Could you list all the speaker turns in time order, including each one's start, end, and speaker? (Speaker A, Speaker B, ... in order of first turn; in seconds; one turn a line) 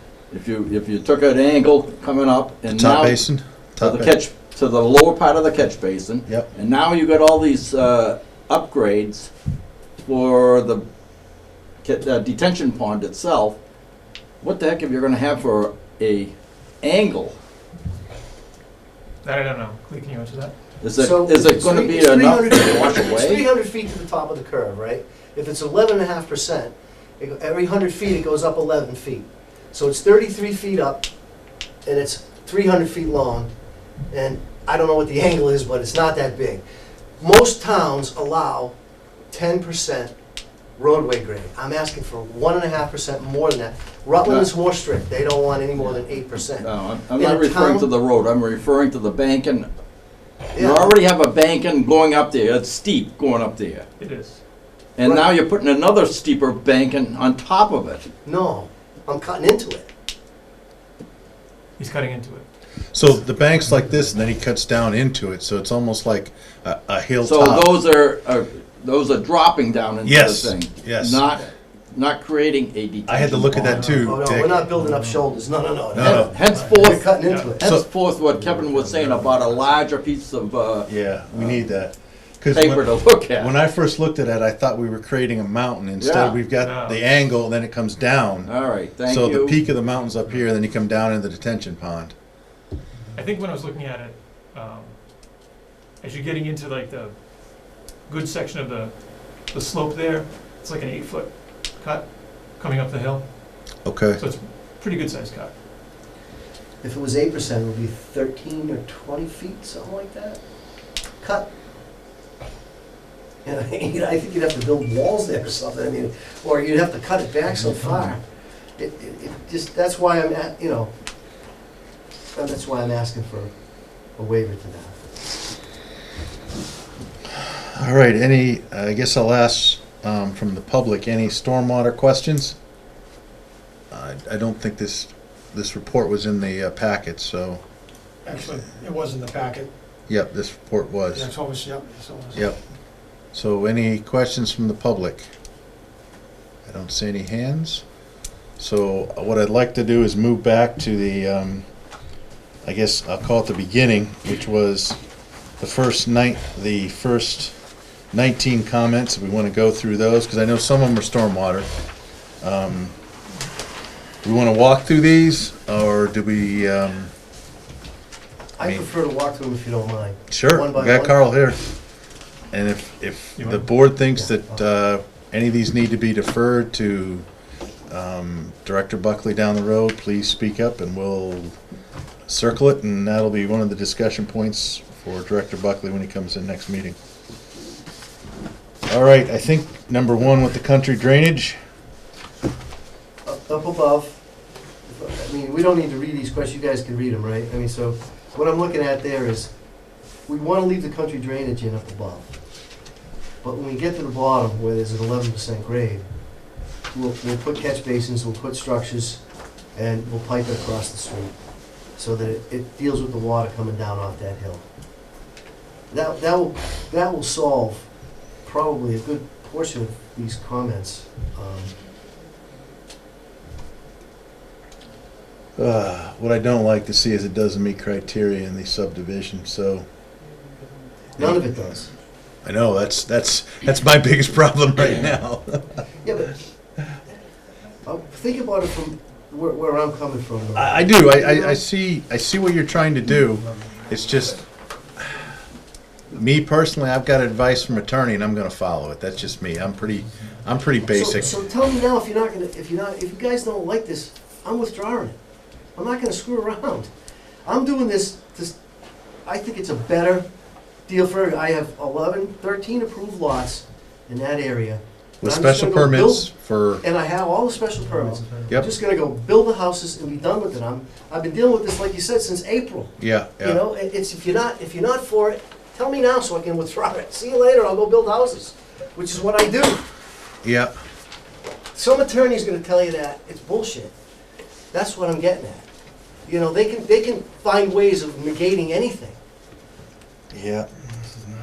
Speaker A: 0.3-3.2
Speaker B: 2.7-4.2
Speaker A: 3.8-9.3
Speaker A: 10.0-10.8
Speaker A: 11.8-13.6
Speaker A: 14.4-17.4
Speaker C: 19.2-20.6
Speaker A: 20.8-23.5
Speaker D: 21.0-31.1
Speaker D: 31.9-33.5
Speaker D: 34.1-36.6
Speaker D: 37.2-38.7
Speaker D: 39.3-40.1
Speaker D: 40.8-47.9
Speaker A: 46.6-49.7
Speaker D: 50.5-51.0
Speaker A: 50.6-53.9
Speaker C: 54.0-54.4
Speaker A: 55.0-58.1
Speaker D: 55.0-55.3
Speaker D: 58.2-59.9
Speaker C: 61.8-62.5
Speaker B: 62.9-67.7
Speaker A: 67.2-74.0
Speaker B: 70.0-71.3
Speaker B: 73.1-74.7
Speaker D: 74.0-79.6
Speaker B: 75.9-76.4
Speaker A: 76.0-81.6
Speaker C: 76.5-77.5
Speaker B: 80.9-88.5
Speaker A: 82.5-83.5
Speaker A: 86.0-86.4
Speaker C: 86.6-87.0
Speaker A: 88.5-89.6
Speaker B: 89.1-92.1
Speaker C: 93.2-95.0
Speaker C: 96.0-103.2
Speaker B: 103.8-104.2
Speaker C: 104.2-105.5
Speaker D: 106.8-110.4
Speaker D: 111.2-111.5
Speaker D: 113.5-118.2
Speaker D: 118.8-120.9
Speaker D: 122.3-123.5
Speaker D: 124.2-125.0
Speaker B: 127.3-132.6
Speaker B: 133.9-137.6
Speaker E: 138.2-139.7
Speaker B: 140.1-141.3
Speaker E: 141.1-142.5
Speaker B: 143.3-145.3
Speaker B: 146.7-147.8
Speaker B: 148.6-151.7
Speaker B: 152.6-155.0
Speaker B: 155.6-157.5
Speaker B: 158.1-161.7
Speaker B: 162.4-162.9
Speaker B: 164.2-167.1
Speaker D: 168.6-171.2
Speaker B: 168.6-168.9
Speaker B: 170.3-171.6
Speaker B: 172.5-177.3
Speaker C: 173.4-173.7
Speaker B: 177.9-181.6
Speaker B: 182.3-187.0
Speaker B: 188.9-191.6
Speaker D: 193.2-194.2
Speaker D: 194.9-199.5
Speaker D: 200.3-202.3
Speaker D: 203.4-206.1
Speaker D: 206.9-209.2
Speaker D: 209.8-211.3
Speaker D: 212.0-214.6
Speaker D: 215.9-217.9
Speaker D: 218.4-221.8
Speaker B: 225.6-229.9
Speaker B: 231.2-231.7
Speaker D: 231.2-231.9
Speaker B: 232.4-235.8
Speaker D: 236.0-236.3
Speaker D: 237.8-241.6
Speaker B: 240.6-244.4
Speaker B: 246.1-251.4
Speaker D: 250.8-255.2
Speaker D: 255.8-256.9
Speaker D: 257.4-258.6
Speaker D: 259.2-260.3
Speaker D: 260.9-266.3
Speaker B: 265.2-266.8
Speaker D: 266.8-279.8
Speaker B: 273.0-273.6
Speaker B: 280.4-280.7
Speaker D: 281.7-283.9
Speaker D: 284.7-285.6
Speaker D: 286.3-289.2
Speaker B: 290.3-290.7